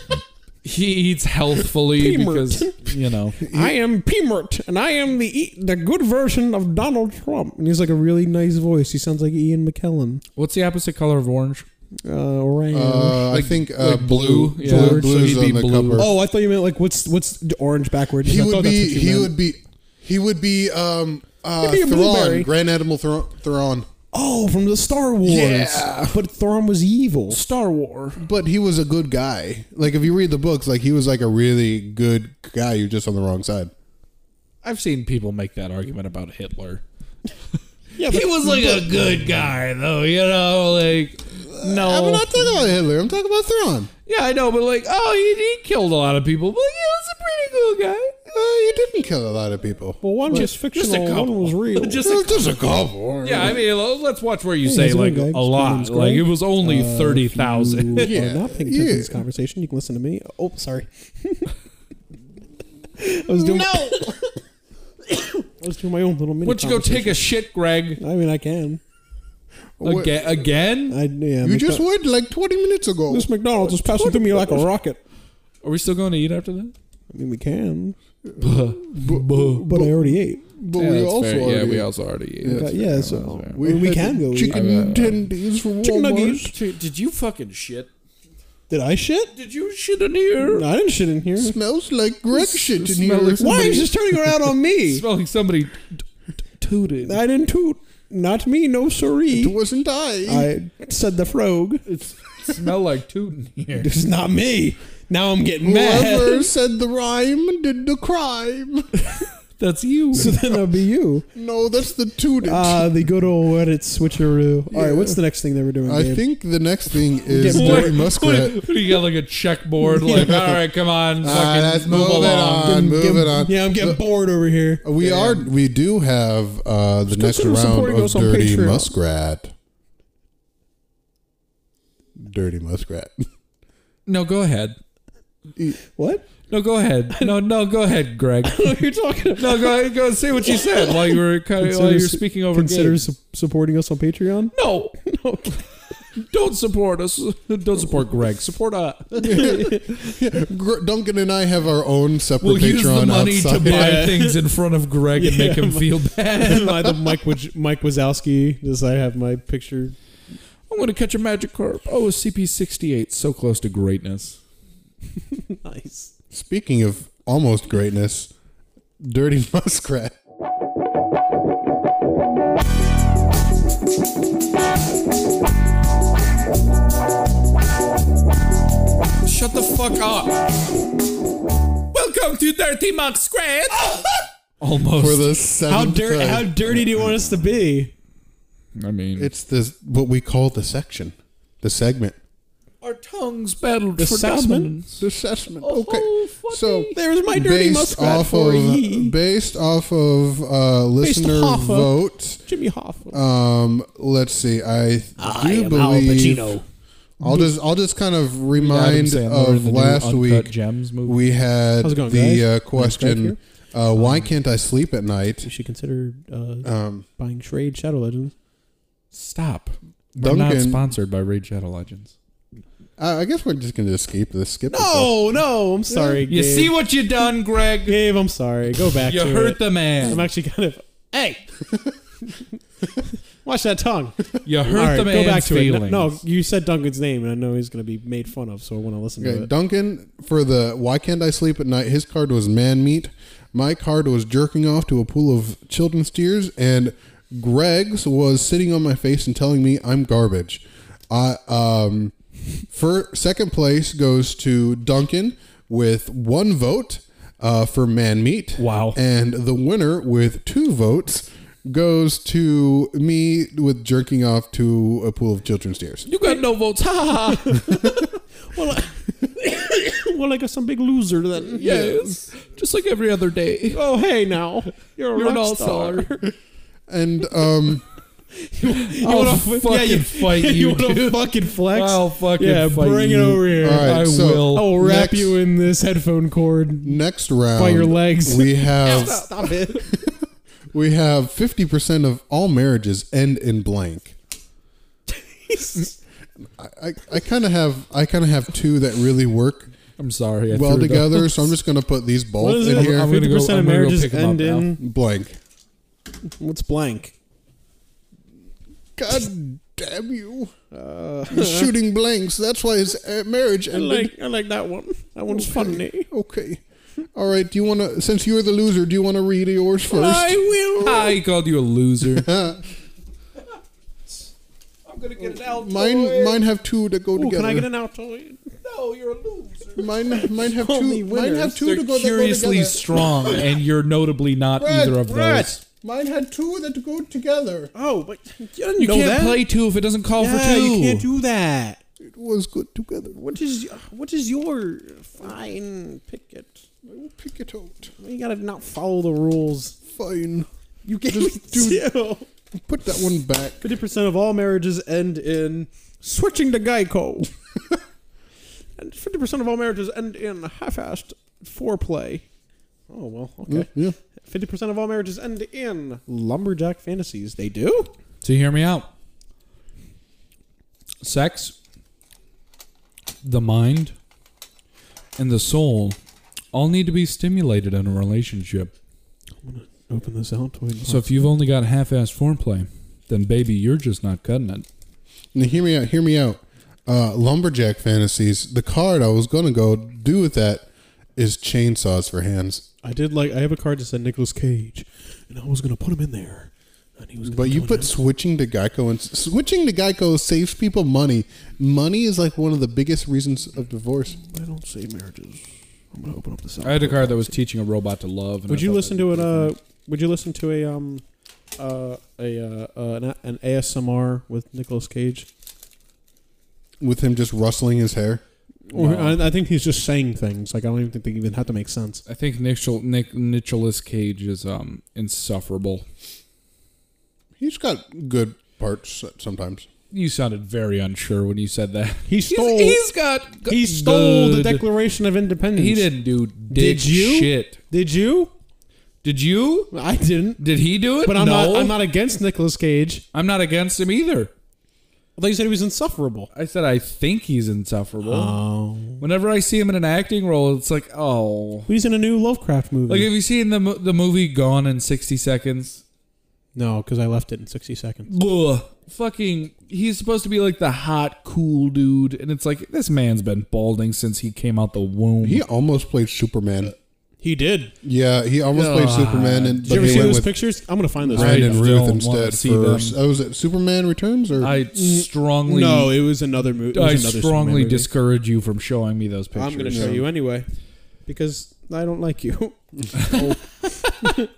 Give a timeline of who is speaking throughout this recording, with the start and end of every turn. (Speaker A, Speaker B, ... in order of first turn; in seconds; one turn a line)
Speaker A: 0.6-3.4
Speaker B: 1.9-10.2
Speaker C: 3.4-3.7
Speaker A: 10.3-11.7
Speaker B: 12.0-13.3
Speaker C: 12.7-16.1
Speaker A: 13.3-16.1
Speaker B: 14.6-15.1
Speaker B: 15.9-19.3
Speaker C: 18.2-23.9
Speaker B: 21.6-22.5
Speaker B: 24.1-27.4
Speaker C: 25.3-26.1
Speaker A: 25.3-26.1
Speaker A: 27.3-28.2
Speaker C: 28.2-33.7
Speaker A: 34.6-36.8
Speaker B: 38.0-39.2
Speaker A: 38.0-42.4
Speaker C: 41.5-43.9
Speaker A: 44.0-48.2
Speaker C: 48.3-50.5
Speaker B: 50.0-52.0
Speaker A: 50.3-52.6
Speaker C: 52.0-53.6
Speaker A: 53.2-58.1
Speaker B: 54.6-61.5
Speaker C: 58.0-59.2
Speaker B: 63.0-64.2
Speaker C: 63.4-64.1
Speaker B: 65.2-67.2
Speaker A: 66.4-68.0
Speaker B: 68.0-68.8
Speaker C: 69.8-70.3
Speaker A: 69.8-71.0
Speaker B: 70.9-71.8
Speaker C: 71.4-73.3
Speaker B: 73.1-75.0
Speaker A: 73.6-74.7
Speaker A: 75.6-76.7
Speaker B: 77.1-78.0
Speaker C: 78.2-81.9
Speaker A: 78.4-79.7
Speaker B: 79.3-80.4
Speaker A: 80.8-83.6
Speaker C: 82.4-82.7
Speaker B: 82.5-84.6
Speaker C: 83.5-86.5
Speaker A: 84.5-85.3
Speaker B: 85.8-86.5
Speaker A: 86.4-87.9
Speaker B: 88.7-89.3
Speaker A: 89.3-90.7
Speaker B: 90.4-91.6
Speaker C: 91.4-93.8
Speaker A: 92.3-93.9
Speaker B: 93.4-95.0
Speaker A: 94.9-96.0
Speaker A: 96.6-97.2
Speaker B: 97.0-99.5
Speaker C: 99.3-100.5
Speaker B: 100.2-101.8
Speaker A: 101.8-103.9
Speaker B: 103.8-106.5
Speaker C: 105.6-108.9
Speaker A: 109.6-110.3
Speaker B: 110.1-111.2
Speaker C: 111.3-112.9
Speaker B: 112.4-116.2
Speaker C: 114.7-115.2
Speaker C: 115.8-118.6
Speaker B: 117.3-118.0
Speaker A: 117.4-122.7
Speaker B: 119.8-120.4
Speaker C: 120.2-120.5
Speaker C: 121.2-124.0
Speaker B: 122.1-125.5
Speaker C: 124.8-129.5
Speaker B: 127.1-128.9
Speaker C: 132.2-133.2
Speaker A: 134.1-134.8
Speaker B: 135.8-136.2
Speaker A: 136.5-138.8
Speaker B: 138.4-139.9
Speaker A: 139.3-143.0
Speaker B: 140.5-145.7
Speaker A: 144.5-144.9
Speaker A: 146.2-149.7
Speaker B: 149.2-150.0
Speaker C: 149.2-154.1
Speaker A: 152.4-157.0
Speaker B: 153.6-154.4
Speaker B: 155.1-159.9
Speaker A: 160.7-164.4
Speaker B: 165.3-166.1
Speaker C: 166.3-168.3
Speaker C: 169.0-170.1
Speaker A: 179.2-180.4
Speaker A: 181.9-185.3
Speaker C: 184.9-186.8
Speaker B: 185.7-187.9
Speaker A: 188.8-189.3
Speaker C: 189.2-192.2
Speaker A: 192.8-195.0
Speaker B: 194.0-194.7
Speaker C: 195.0-202.4
Speaker A: 195.6-196.9
Speaker B: 196.9-199.1
Speaker B: 201.0-203.2
Speaker C: 203.1-206.6
Speaker C: 207.2-210.5
Speaker B: 207.2-207.5
Speaker A: 208.5-211.2
Speaker C: 211.0-215.5
Speaker B: 211.8-213.4
Speaker B: 215.4-218.3
Speaker C: 216.6-217.1
Speaker A: 219.1-222.1
Speaker C: 220.2-220.8
Speaker C: 223.0-225.3
Speaker B: 224.7-226.7
Speaker A: 226.3-228.0
Speaker B: 227.8-231.4
Speaker A: 229.0-230.2
Speaker B: 233.0-239.5
Speaker A: 234.4-236.2
Speaker C: 239.2-252.1
Speaker C: 252.7-266.1
Speaker A: 258.6-259.0
Speaker A: 266.1-267.7
Speaker B: 267.2-272.2
Speaker A: 271.5-273.8
Speaker B: 273.7-276.3
Speaker A: 275.1-276.1
Speaker C: 276.9-277.8
Speaker B: 278.4-284.0
Speaker A: 278.9-284.8
Speaker C: 283.6-285.4
Speaker B: 284.5-287.0
Speaker C: 286.8-290.2
Speaker B: 287.5-289.9
Speaker C: 290.7-294.1
Speaker B: 295.1-295.9
Speaker C: 296.6-299.7
Speaker A: 300.0-301.5
Speaker C: 300.5-303.1
Speaker B: 302.4-304.8
Speaker A: 302.6-304.7
Speaker C: 304.8-305.4
Speaker B: 306.4-307.1
Speaker C: 309.0-310.5
Speaker B: 310.7-311.7
Speaker C: 311.3-314.1
Speaker B: 313.7-316.1
Speaker C: 315.3-316.6
Speaker C: 317.1-320.4
Speaker B: 319.9-321.2
Speaker A: 320.8-322.3
Speaker C: 322.1-322.6
Speaker A: 324.9-326.4
Speaker C: 325.5-327.7
Speaker B: 327.1-328.4
Speaker A: 328.6-329.9
Speaker C: 329.8-333.0
Speaker B: 330.5-331.6
Speaker A: 331.6-335.6
Speaker C: 334.6-337.7
Speaker B: 337.7-339.4
Speaker A: 338.8-341.1
Speaker B: 340.2-341.8
Speaker C: 342.0-343.2
Speaker B: 343.1-346.6
Speaker C: 346.8-347.9
Speaker B: 348.0-349.8
Speaker C: 349.9-350.5
Speaker B: 350.9-352.3
Speaker C: 351.1-351.9
Speaker C: 352.5-353.6
Speaker B: 353.6-357.3
Speaker B: 358.8-362.2
Speaker B: 362.9-367.9
Speaker C: 363.5-363.9
Speaker A: 368.2-368.9
Speaker A: 371.0-371.5
Speaker A: 373.2-373.9
Speaker A: 375.2-376.0
Speaker A: 376.5-378.7
Speaker B: 379.4-381.1
Speaker A: 380.9-384.6
Speaker C: 385.3-392.6
Speaker B: 392.8-397.9
Speaker C: 397.2-404.2
Speaker B: 404.2-407.3
Speaker A: 406.6-409.5
Speaker B: 408.5-411.0
Speaker B: 411.6-415.3
Speaker C: 416.8-418.2
Speaker B: 418.7-422.0
Speaker A: 418.7-419.2
Speaker A: 422.1-425.8
Speaker C: 427.4-429.7
Speaker A: 429.9-434.6
Speaker B: 432.1-432.8
Speaker B: 433.5-435.9
Speaker A: 435.6-437.6
Speaker B: 436.5-438.3
Speaker A: 439.0-439.7
Speaker B: 439.7-440.4
Speaker A: 440.4-441.8
Speaker B: 441.0-443.0
Speaker A: 443.1-444.3
Speaker B: 445.2-446.3
Speaker A: 446.3-448.4
Speaker B: 448.0-449.0
Speaker A: 448.9-451.7
Speaker B: 451.7-453.1
Speaker A: 452.9-455.8
Speaker B: 456.5-458.1
Speaker A: 458.1-465.4
Speaker C: 465.2-466.7
Speaker B: 467.2-467.7
Speaker C: 467.8-470.3
Speaker A: 468.5-470.3
Speaker B: 469.6-471.6
Speaker A: 471.1-473.0
Speaker C: 471.1-474.5
Speaker A: 474.4-476.0
Speaker B: 474.7-477.9
Speaker A: 476.7-480.0
Speaker B: 479.3-480.5
Speaker C: 479.7-480.0
Speaker B: 481.1-484.3
Speaker A: 483.0-483.3